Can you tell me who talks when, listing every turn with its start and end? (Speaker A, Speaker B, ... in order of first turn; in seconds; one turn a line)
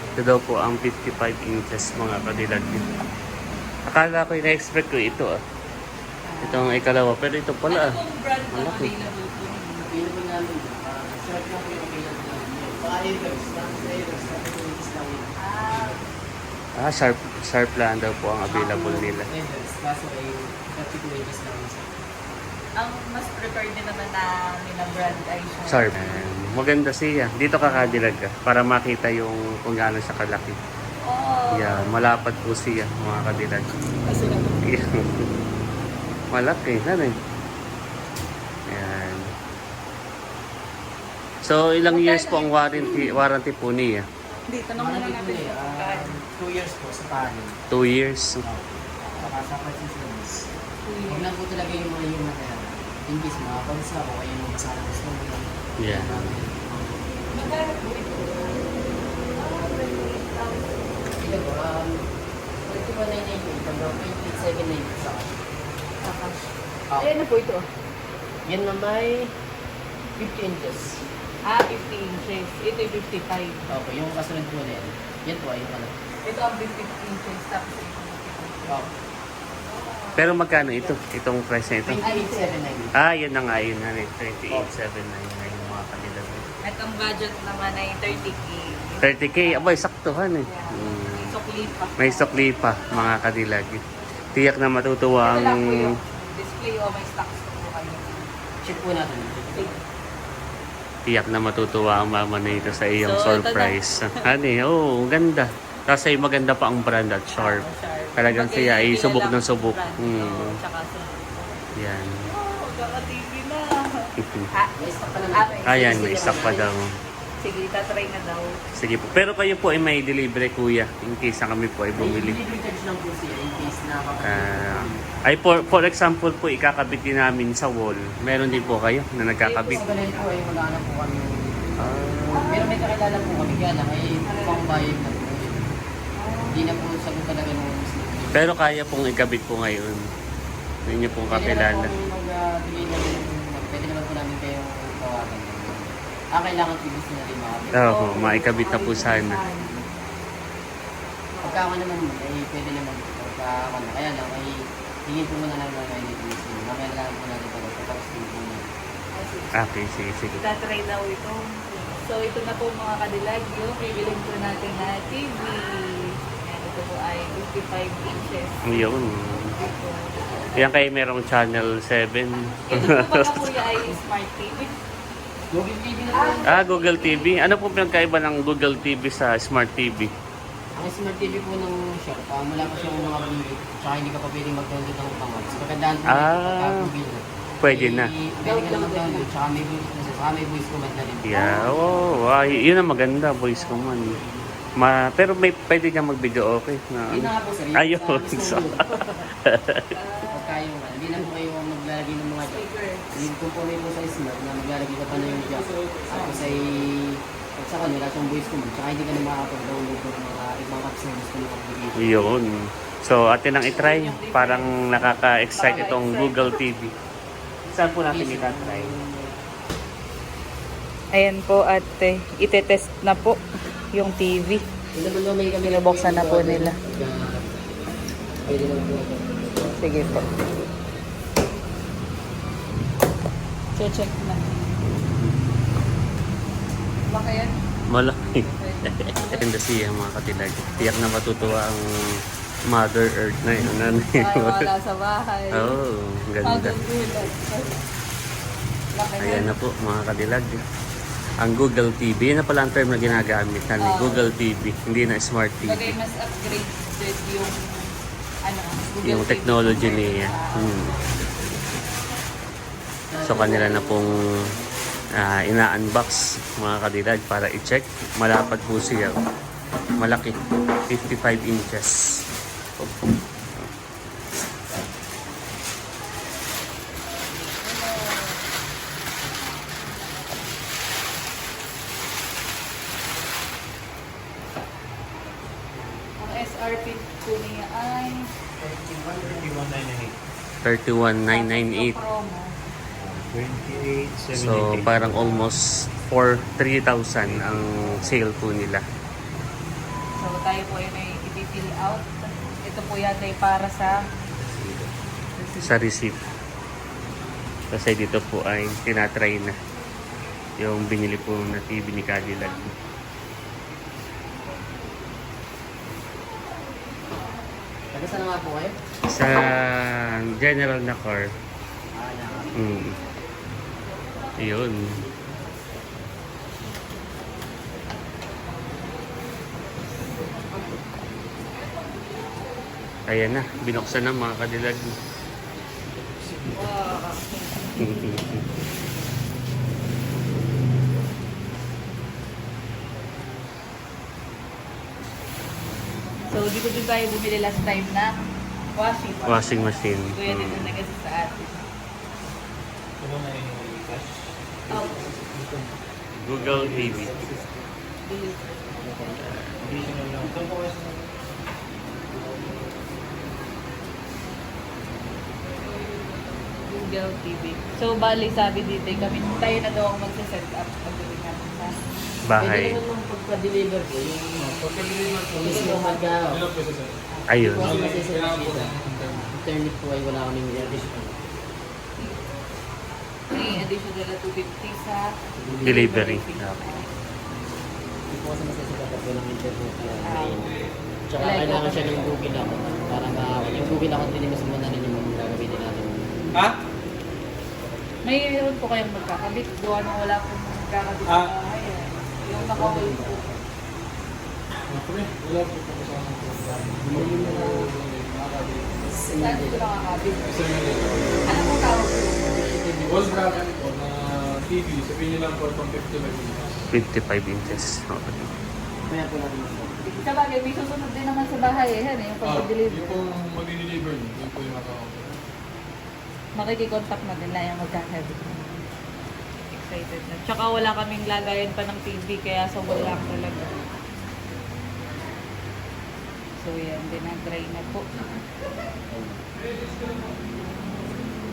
Speaker A: 0.2-2.9
Speaker A: 3.9-5.3
Speaker B: 6.2-6.8
Speaker A: 6.4-8.0
Speaker B: 7.7-9.9
Speaker A: 8.5-8.9
Speaker C: 9.9-16.0
Speaker B: 15.4-15.9
Speaker A: 16.8-19.3
Speaker C: 18.5-21.9
Speaker B: 22.8-25.9
Speaker A: 25.7-30.6
Speaker B: 27.6-28.0
Speaker B: 31.0-31.9
Speaker A: 31.5-33.7
Speaker B: 34.1-34.5
Speaker A: 34.6-35.3
Speaker A: 36.3-37.1
Speaker A: 38.7-39.2
Speaker A: 41.4-44.0
Speaker B: 41.9-43.2
Speaker B: 44.5-46.1
Speaker C: 44.8-47.5
Speaker A: 47.7-48.4
Speaker C: 48.4-50.5
Speaker B: 50.9-51.2
Speaker C: 51.1-57.0
Speaker A: 55.8-56.3
Speaker B: 57.3-58.6
Speaker B: 59.4-60.8
Speaker C: 61.2-62.0
Speaker C: 62.6-65.4
Speaker B: 66.0-66.3
Speaker B: 67.0-67.6
Speaker C: 68.5-69.3
Speaker C: 70.2-71.0
Speaker B: 71.5-73.5
Speaker C: 73.7-75.9
Speaker B: 76.2-78.9
Speaker B: 79.6-80.9
Speaker A: 80.2-82.0
Speaker C: 81.8-82.9
Speaker B: 82.0-82.5
Speaker A: 83.0-86.5
Speaker B: 86.6-89.7
Speaker A: 89.0-91.3
Speaker B: 90.4-92.4
Speaker A: 92.0-93.8
Speaker A: 94.3-95.8
Speaker B: 95.2-98.3
Speaker C: 98.6-99.7
Speaker B: 99.5-99.8
Speaker A: 101.0-107.6
Speaker B: 103.0-103.8
Speaker B: 107.4-111.7
Speaker A: 108.2-110.5
Speaker A: 111.8-112.1
Speaker B: 112.2-114.7
Speaker A: 114.2-114.5
Speaker C: 114.8-116.6
Speaker B: 115.3-116.6
Speaker A: 115.7-116.8
Speaker B: 117.4-118.6
Speaker A: 118.8-122.4
Speaker C: 122.0-125.0
Speaker A: 124.2-129.8
Speaker B: 128.5-128.8
Speaker B: 129.4-130.2
Speaker C: 129.7-131.3
Speaker A: 131.8-132.5
Speaker B: 132.3-132.8
Speaker C: 132.4-135.6
Speaker B: 134.2-134.7
Speaker B: 136.2-136.8
Speaker C: 136.5-138.5
Speaker A: 138.3-140.0
Speaker A: 140.9-141.9
Speaker C: 141.3-148.1
Speaker B: 147.7-149.7
Speaker A: 147.8-149.4
Speaker B: 151.3-151.7
Speaker C: 151.4-158.6
Speaker B: 159.1-159.6
Speaker A: 159.5-160.4
Speaker B: 160.3-168.7
Speaker A: 168.6-169.5
Speaker B: 169.4-170.1
Speaker A: 170.6-173.4
Speaker B: 172.7-174.7
Speaker C: 175.5-176.6
Speaker B: 176.1-177.4
Speaker A: 176.5-180.1
Speaker C: 180.7-191.6
Speaker A: 186.1-186.9
Speaker A: 187.6-188.1
Speaker B: 188.4-189.3
Speaker A: 191.2-194.2
Speaker B: 191.3-192.8
Speaker B: 193.5-194.0
Speaker A: 194.8-198.8
Speaker C: 197.1-199.0
Speaker A: 199.4-199.8
Speaker B: 199.9-200.6
Speaker C: 200.3-212.3
Speaker B: 202.4-203.1
Speaker D: 205.1-206.9
Speaker A: 212.0-212.5
Speaker A: 213.0-216.9
Speaker B: 213.7-214.9
Speaker B: 215.6-216.6
Speaker A: 217.7-218.9
Speaker C: 218.1-219.3
Speaker B: 221.1-223.4
Speaker B: 223.9-224.6
Speaker C: 224.9-227.4
Speaker B: 225.6-226.8
Speaker C: 228.4-229.8
Speaker B: 229.8-230.3
Speaker B: 233.8-234.6
Speaker A: 234.8-235.3
Speaker B: 237.1-237.5
Speaker A: 237.9-241.8
Speaker B: 238.3-239.4
Speaker B: 240.7-241.0
Speaker A: 242.7-244.6
Speaker B: 244.1-245.8
Speaker A: 245.5-246.8
Speaker B: 246.4-247.8
Speaker B: 248.9-249.5
Speaker A: 249.2-250.6
Speaker A: 251.4-255.9
Speaker B: 253.8-254.3
Speaker B: 255.7-257.6
Speaker B: 258.4-261.2
Speaker A: 259.0-260.9
Speaker C: 263.1-264.6
Speaker A: 263.2-264.2
Speaker A: 265.2-269.1
Speaker A: 270.0-270.4
Speaker A: 270.9-272.2
Speaker B: 277.6-278.4
Speaker B: 286.2-288.2
Speaker C: 288.6-289.5
Speaker E: 289.2-290.1
Speaker A: 290.6-291.9
Speaker B: 291.3-292.5
Speaker E: 292.9-295.5
Speaker A: 294.3-298.8
Speaker E: 297.2-298.2
Speaker B: 300.1-304.0
Speaker A: 304.5-304.9
Speaker B: 305.4-305.7
Speaker A: 305.6-306.1
Speaker A: 307.7-309.5
Speaker A: 310.6-312.7
Speaker C: 317.9-318.7
Speaker A: 319.1-321.3
Speaker C: 321.9-322.6
Speaker A: 322.6-322.9
Speaker A: 324.4-324.9
Speaker A: 333.1-334.9
Speaker B: 336.5-338.1
Speaker A: 337.8-338.4
Speaker B: 346.3-348.1
Speaker B: 348.8-351.6
Speaker A: 349.2-350.7
Speaker E: 353.0-357.7
Speaker B: 354.7-355.0
Speaker A: 356.2-357.1
Speaker B: 358.0-358.4
Speaker E: 359.6-361.0
Speaker B: 366.7-371.7
Speaker A: 372.3-372.8
Speaker C: 372.4-374.6
Speaker C: 375.4-376.4
Speaker D: 376.2-377.0
Speaker A: 377.3-377.7
Speaker C: 377.4-378.8
Speaker D: 377.6-379.3
Speaker C: 379.3-381.1
Speaker B: 383.3-385.1
Speaker C: 385.4-385.8
Speaker B: 385.6-386.9
Speaker A: 385.6-386.7
Speaker C: 388.1-390.5
Speaker B: 390.0-390.4
Speaker C: 391.1-396.0
Speaker B: 391.2-392.1
Speaker B: 398.1-403.2
Speaker C: 402.3-403.3
Speaker D: 404.7-408.9
Speaker C: 406.8-407.6
Speaker C: 408.9-409.6
Speaker B: 409.2-410.4
Speaker D: 410.2-411.8
Speaker B: 411.2-412.6
Speaker D: 412.4-413.9
Speaker D: 414.4-416.6
Speaker A: 416.7-418.3
Speaker C: 418.9-419.7
Speaker B: 419.8-422.9
Speaker D: 422.2-425.1
Speaker B: 426.4-428.5
Speaker B: 429.5-433.5
Speaker B: 436.4-437.9
Speaker C: 438.9-439.2